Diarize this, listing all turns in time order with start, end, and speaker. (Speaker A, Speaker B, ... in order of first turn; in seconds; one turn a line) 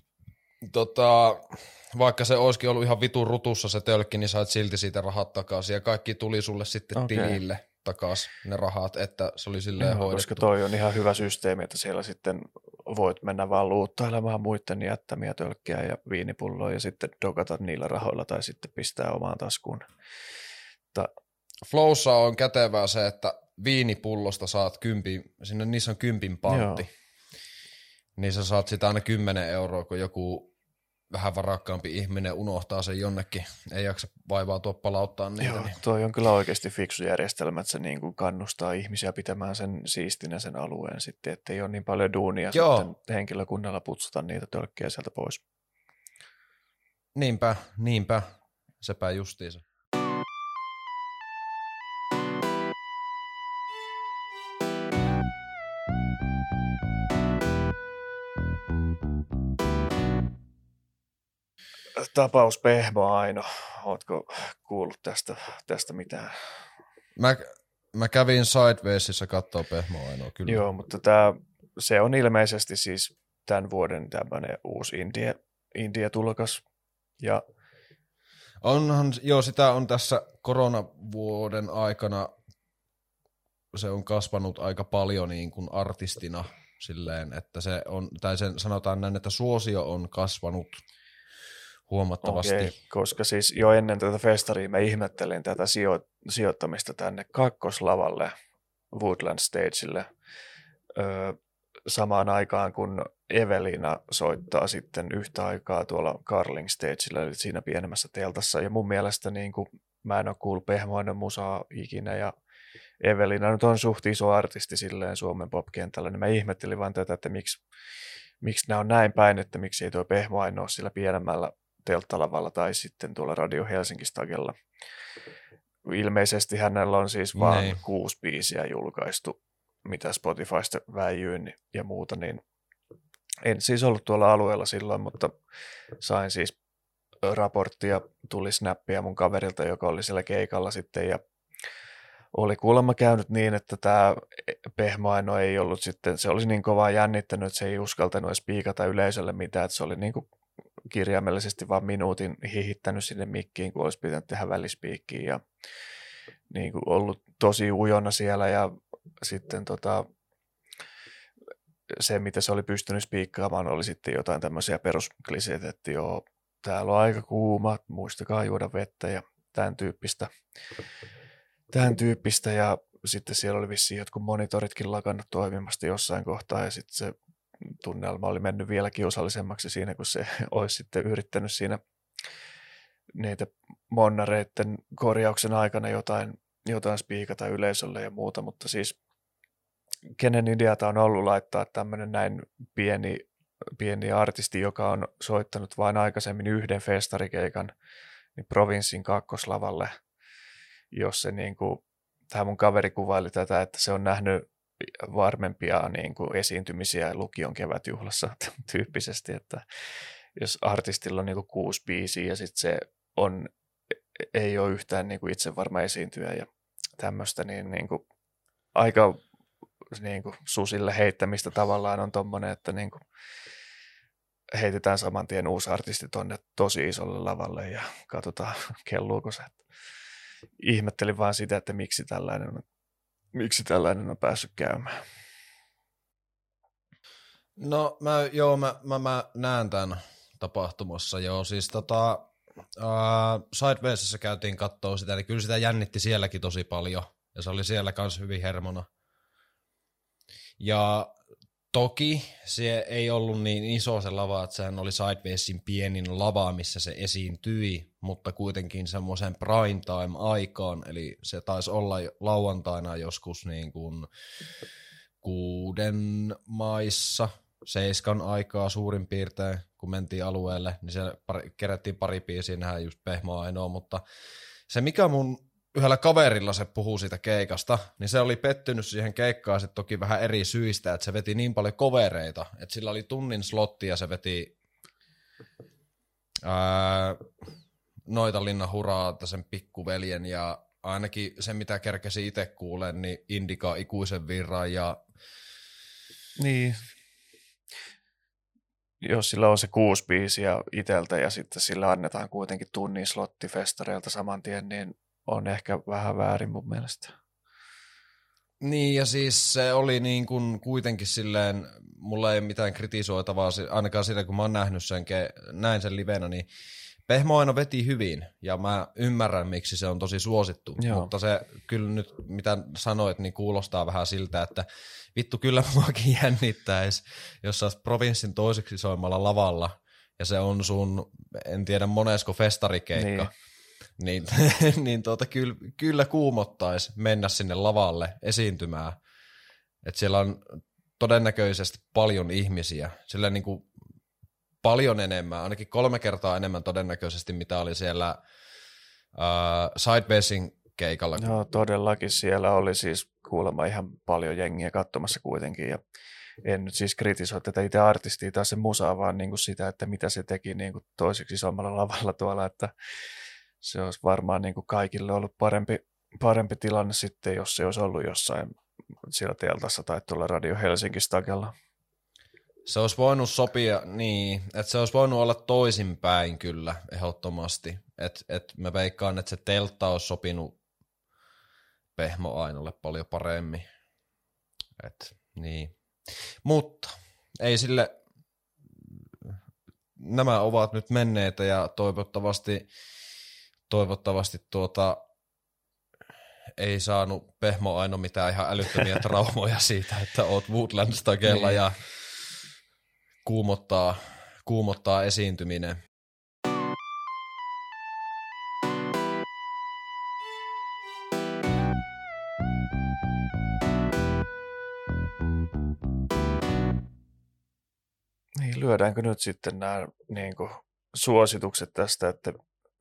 Speaker A: 0.6-10.4
Speaker B: 7.0-7.4
Speaker B: 9.8-19.9
Speaker A: 21.6-26.9
Speaker B: 26.5-26.9
Speaker A: 28.2-30.5
Speaker A: 31.1-35.8
Speaker B: 35.4-45.4
Speaker A: 42.5-42.9
Speaker A: 47.1-49.6
Speaker B: 62.0-66.5
Speaker A: 67.2-70.6
Speaker B: 70.5-76.6
Speaker A: 78.6-82.3
Speaker A: 83.7-90.8
Speaker A: 91.9-92.8
Speaker B: 92.2-98.3
Speaker B: 98.9-100.1
Speaker B: 101.0-112.3
Speaker B: 113.0-117.6
Speaker B: 118.4-124.5
Speaker B: 125.8-132.4
Speaker A: 127.4-127.8
Speaker B: 133.4-135.3
Speaker B: 136.0-136.6
Speaker B: 137.2-141.2
Speaker B: 142.3-150.2
Speaker B: 150.9-155.4
Speaker B: 156.5-160.1
Speaker B: 161.9-170.3
Speaker B: 171.7-177.2
Speaker B: 177.8-181.8
Speaker B: 183.2-189.0
Speaker B: 190.2-193.3
Speaker B: 193.8-197.7
Speaker B: 198.4-199.9
Speaker B: 200.9-209.6
Speaker B: 210.4-213.5
Speaker B: 214.2-216.5
Speaker B: 217.0-218.0
Speaker B: 218.8-219.2
Speaker B: 219.9-223.0
Speaker B: 224.5-229.6
Speaker B: 230.6-232.6
Speaker B: 233.3-235.0
Speaker A: 237.6-248.9
Speaker A: 250.6-251.1
Speaker A: 251.7-264.1
Speaker A: 265.2-274.0
Speaker A: 274.7-284.5
Speaker A: 286.4-287.2
Speaker A: 288.1-295.0
Speaker B: 296.4-296.9
Speaker B: 299.0-307.1
Speaker A: 308.6-316.5
Speaker A: 317.1-333.3
Speaker B: 320.8-321.1
Speaker B: 333.0-333.3
Speaker A: 334.0-339.0
Speaker A: 339.8-343.7
Speaker A: 344.6-348.2
Speaker A: 349.1-351.3
Speaker B: 351.2-355.8
Speaker B: 356.4-362.7
Speaker B: 363.6-368.5
Speaker B: 369.1-371.5
Speaker A: 372.7-380.6
Speaker A: 382.0-383.7
Speaker A: 384.8-387.9
Speaker A: 388.8-389.4
Speaker A: 390.0-392.7
Speaker A: 393.7-395.0
Speaker A: 396.6-401.8
Speaker B: 401.3-401.6
Speaker A: 403.2-405.8
Speaker B: 418.4-422.4